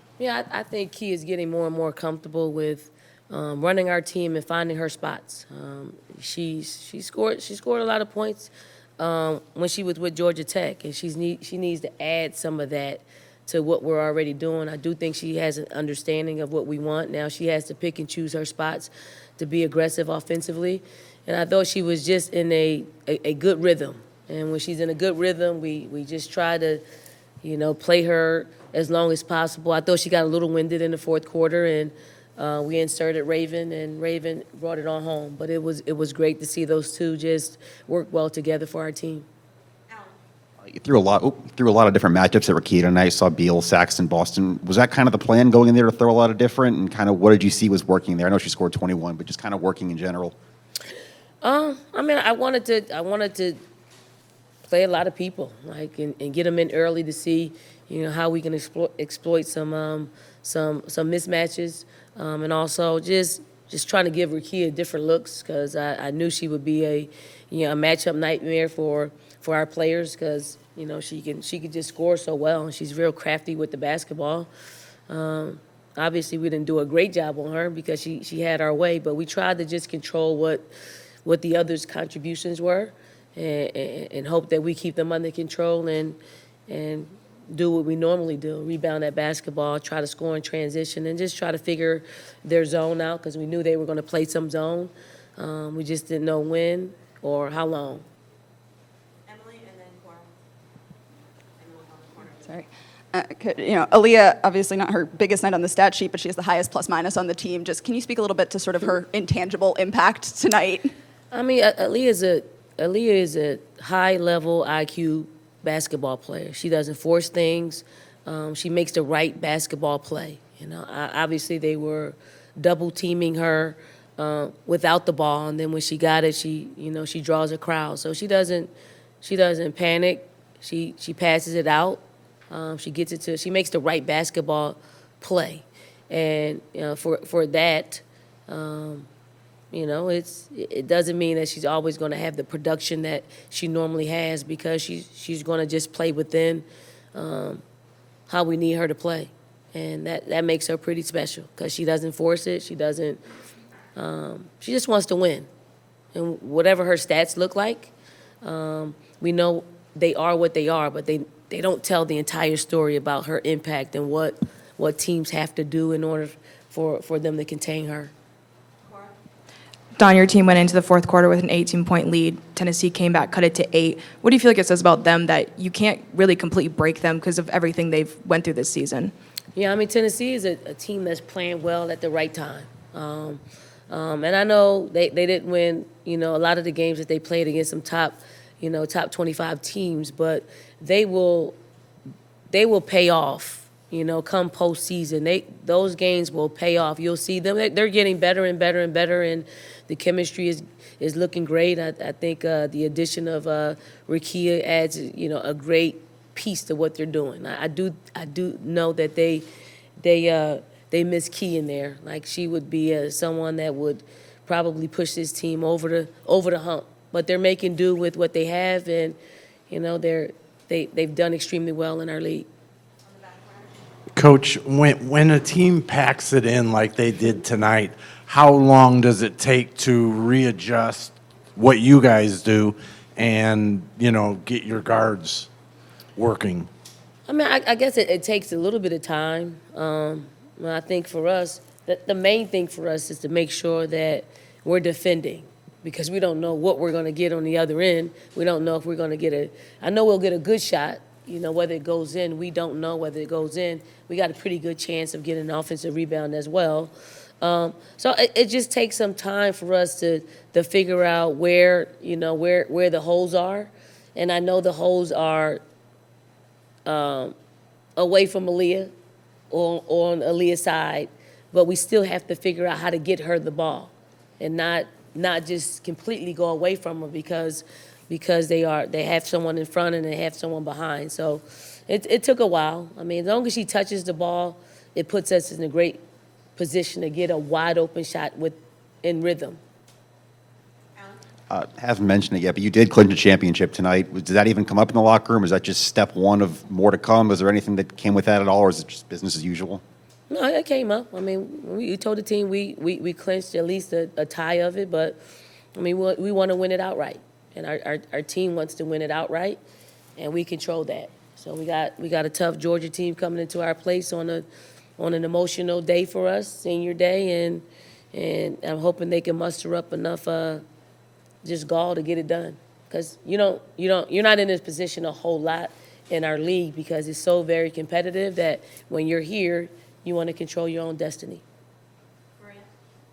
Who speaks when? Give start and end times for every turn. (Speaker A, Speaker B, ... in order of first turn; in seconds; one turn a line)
Speaker A: 0.2-26.8
Speaker A: 27.4-39.2
Speaker B: 40.6-50.3
Speaker A: 51.4-53.6
Speaker A: 54.6-74.5
Speaker A: 75.1-80.7
Speaker A: 81.2-98.0
Speaker C: 99.3-100.3
Speaker C: 101.6-102.5
Speaker D: 102.4-110.9
Speaker A: 111.3-139.1
Speaker A: 139.7-147.6
Speaker A: 148.3-153.2
Speaker A: 153.9-155.5
Speaker A: 156.1-157.9
Speaker A: 158.4-168.1
Speaker E: 170.0-179.1
Speaker A: 179.5-191.6
Speaker A: 192.5-209.4
Speaker A: 210.0-219.2
Speaker A: 219.7-222.5
Speaker C: 223.3-223.7
Speaker F: 224.2-235.5
Speaker F: 236.2-236.7
Speaker A: 237.3-265.6
Speaker A: 266.9-267.4
Speaker A: 268.0-268.9
Speaker A: 269.5-286.0
Speaker A: 286.6-289.6
Speaker B: 291.5-299.8
Speaker A: 300.3-305.2
Speaker A: 305.7-309.6
Speaker A: 310.2-314.4
Speaker A: 315.0-320.6
Speaker A: 321.4-331.4